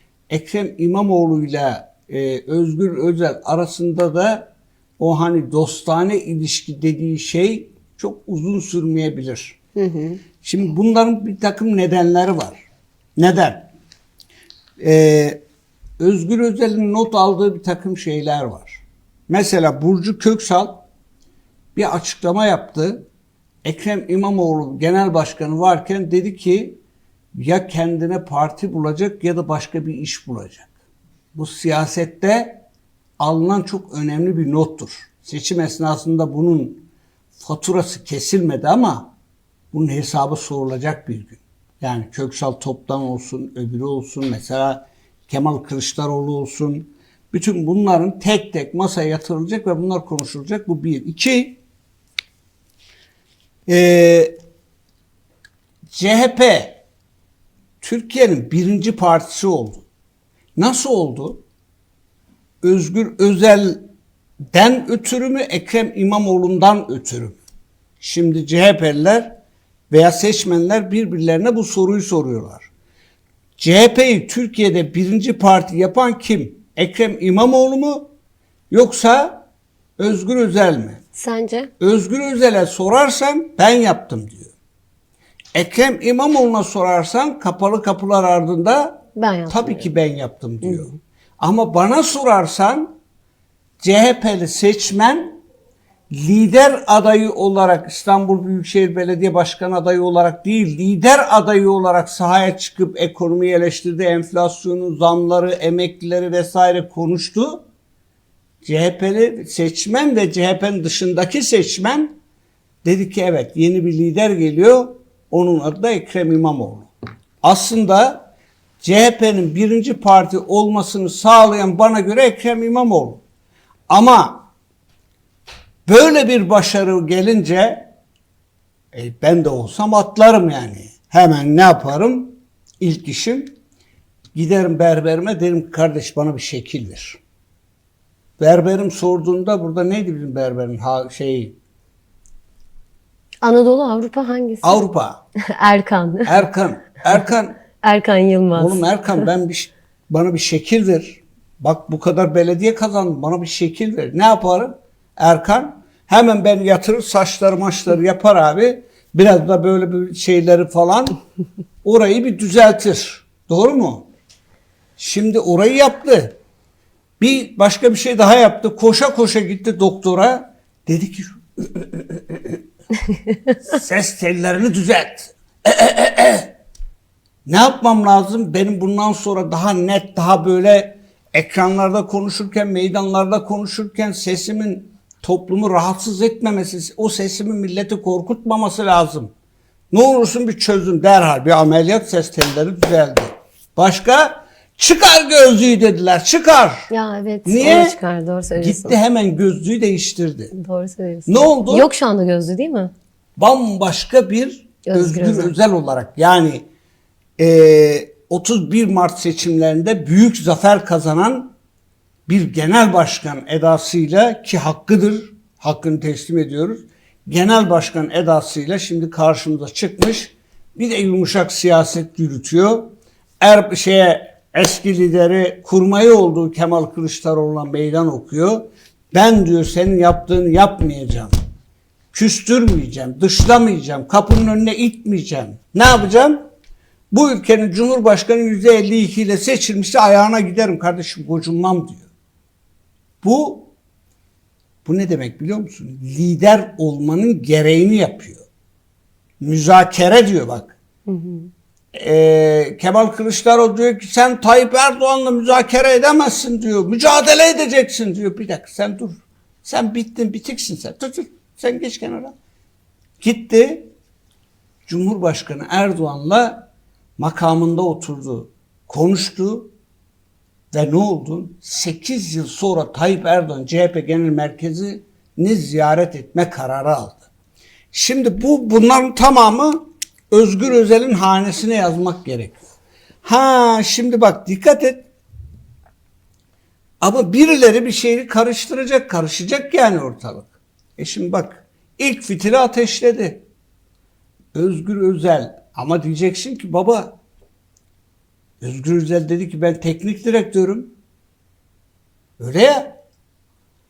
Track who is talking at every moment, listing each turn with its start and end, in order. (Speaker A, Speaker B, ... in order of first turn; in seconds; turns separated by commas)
Speaker A: 0.3-9.6, Speaker B: 9.8-10.2, Speaker A: 10.4-13.7, Speaker A: 14.8-15.4, Speaker A: 16.0-20.9, Speaker A: 21.7-23.1, Speaker A: 23.6-26.8, Speaker A: 27.3-30.7, Speaker A: 31.3-32.6, Speaker A: 33.2-36.9, Speaker A: 37.4-39.1, Speaker A: 39.7-51.6, Speaker A: 53.7-54.4, Speaker A: 55.9-56.8, Speaker A: 57.8-59.8, Speaker A: 60.5-61.4, Speaker A: 62.6-63.9, Speaker A: 64.5-67.4, Speaker A: 68.0-69.4, Speaker A: 69.9-72.7, Speaker A: 73.6-78.1, Speaker A: 78.7-79.4, Speaker A: 80.0-81.0, Speaker B: 81.2-81.7, Speaker A: 81.8-84.5, Speaker A: 85.5-92.9, Speaker B: 89.2-89.8, Speaker A: 93.8-95.4, Speaker A: 96.1-107.6, Speaker A: 108.6-112.2, Speaker A: 112.8-116.9, Speaker A: 117.4-118.3, Speaker A: 118.8-123.2, Speaker A: 123.9-124.5, Speaker A: 125.9-127.9, Speaker A: 128.9-133.6, Speaker A: 134.3-137.2, Speaker A: 138.4-141.6, Speaker B: 143.4-144.8, Speaker A: 144.6-145.2, Speaker B: 145.6-146.5, Speaker A: 146.2-147.6, Speaker B: 147.8-149.2, Speaker A: 148.5-161.2, Speaker A: 161.8-164.1, Speaker A: 165.0-166.4, Speaker A: 167.2-172.6, Speaker A: 173.6-176.6, Speaker A: 177.4-189.3, Speaker A: 189.9-196.9, Speaker B: 196.9-199.0, Speaker A: 197.4-198.0, Speaker A: 198.6-200.5, Speaker B: 200.5-202.9, Speaker A: 201.2-201.9, Speaker A: 203.4-206.6, Speaker B: 204.8-205.5, Speaker A: 207.4-211.5, Speaker A: 212.3-231.3, Speaker A: 232.1-236.5, Speaker A: 237.1-242.1, Speaker A: 243.2-243.7, Speaker A: 244.8-248.4, Speaker A: 249.4-250.8, Speaker B: 251.1-251.5, Speaker A: 251.9-262.3, Speaker A: 263.2-263.9, Speaker A: 264.9-269.7, Speaker A: 270.7-277.2, Speaker A: 277.9-282.6, Speaker A: 283.2-285.1, Speaker A: 287.0-293.4, Speaker A: 294.5-297.2, Speaker A: 298.6-300.9, Speaker A: 302.4-303.0